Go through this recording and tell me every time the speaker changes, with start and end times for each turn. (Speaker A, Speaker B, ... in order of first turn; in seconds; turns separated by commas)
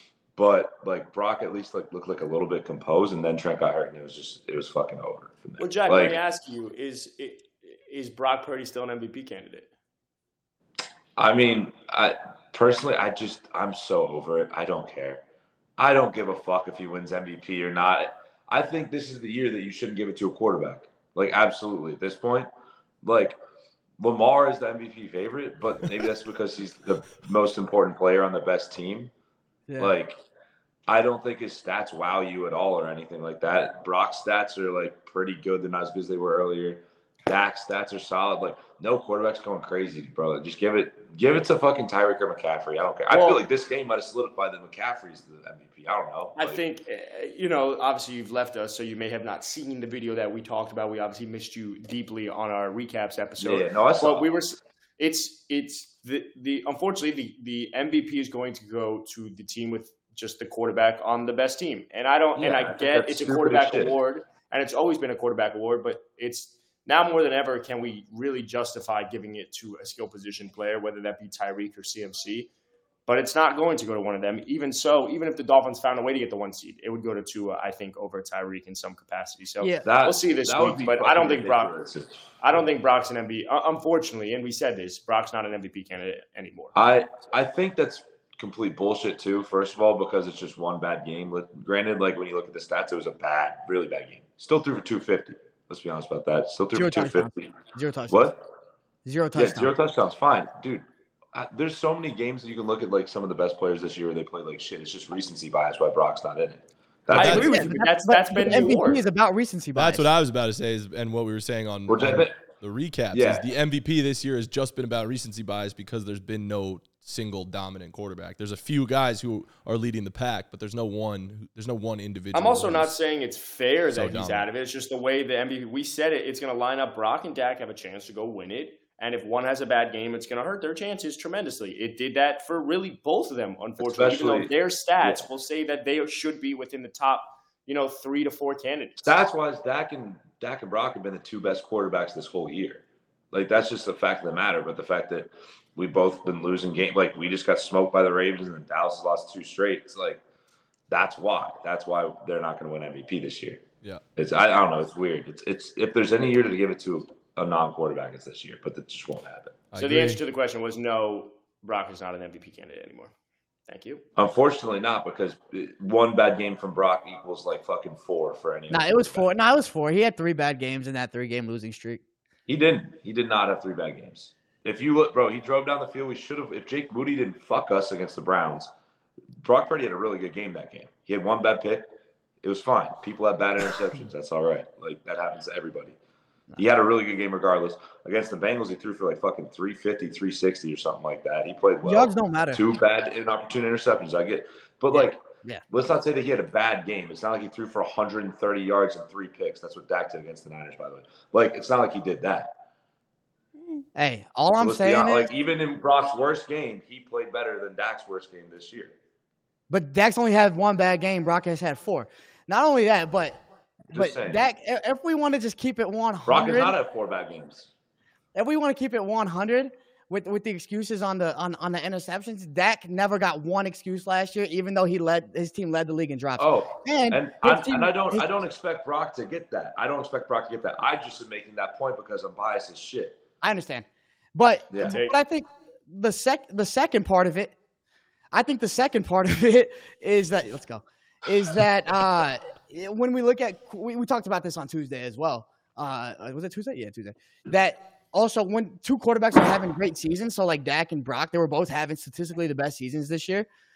Speaker A: 0.4-6.2, Speaker B: 5.6-9.7, Speaker A: 11.2-15.2, Speaker A: 15.8-22.5, Speaker A: 23.0-23.4, Speaker A: 24.0-29.1, Speaker C: 29.7-30.0, Speaker A: 29.8-30.2, Speaker A: 30.9-46.6, Speaker B: 43.1-43.4, Speaker B: 46.4-72.5, Speaker A: 53.4-54.3, Speaker A: 62.4-64.0, Speaker B: 73.1-81.7, Speaker A: 79.8-82.2, Speaker B: 82.4-86.7, Speaker A: 86.8-97.6, Speaker C: 96.7-98.3, Speaker A: 98.1-98.4, Speaker C: 99.0-99.7, Speaker A: 99.3-107.7, Speaker D: 107.1-107.5, Speaker B: 107.1-109.0, Speaker C: 107.3-110.1, Speaker D: 109.8-123.0, Speaker A: 111.9-112.4, Speaker A: 113.1-113.5, Speaker B: 122.3-139.1, Speaker D: 123.9-124.5, Speaker A: 133.8-135.2, Speaker A: 139.0-150.2, Speaker A: 150.9-153.6, Speaker A: 154.2-159.6, Speaker D: 159.7-160.2, Speaker B: 159.8-163.1, Speaker B: 163.7-164.0, Speaker A: 164.2-169.3, Speaker C: 168.7-172.0, Speaker A: 172.5-178.7, Speaker A: 179.4-181.8, Speaker A: 182.4-186.0, Speaker A: 186.6-202.5, Speaker C: 191.8-192.6, Speaker C: 194.9-195.6, Speaker C: 203.9-205.3, Speaker A: 204.6-208.9, Speaker C: 209.7-216.8, Speaker A: 213.9-214.4, Speaker A: 216.3-217.7, Speaker C: 218.3-228.3, Speaker A: 226.4-233.2, Speaker C: 233.4-237.6, Speaker A: 234.7-235.0, Speaker B: 234.9-235.2, Speaker C: 238.3-253.5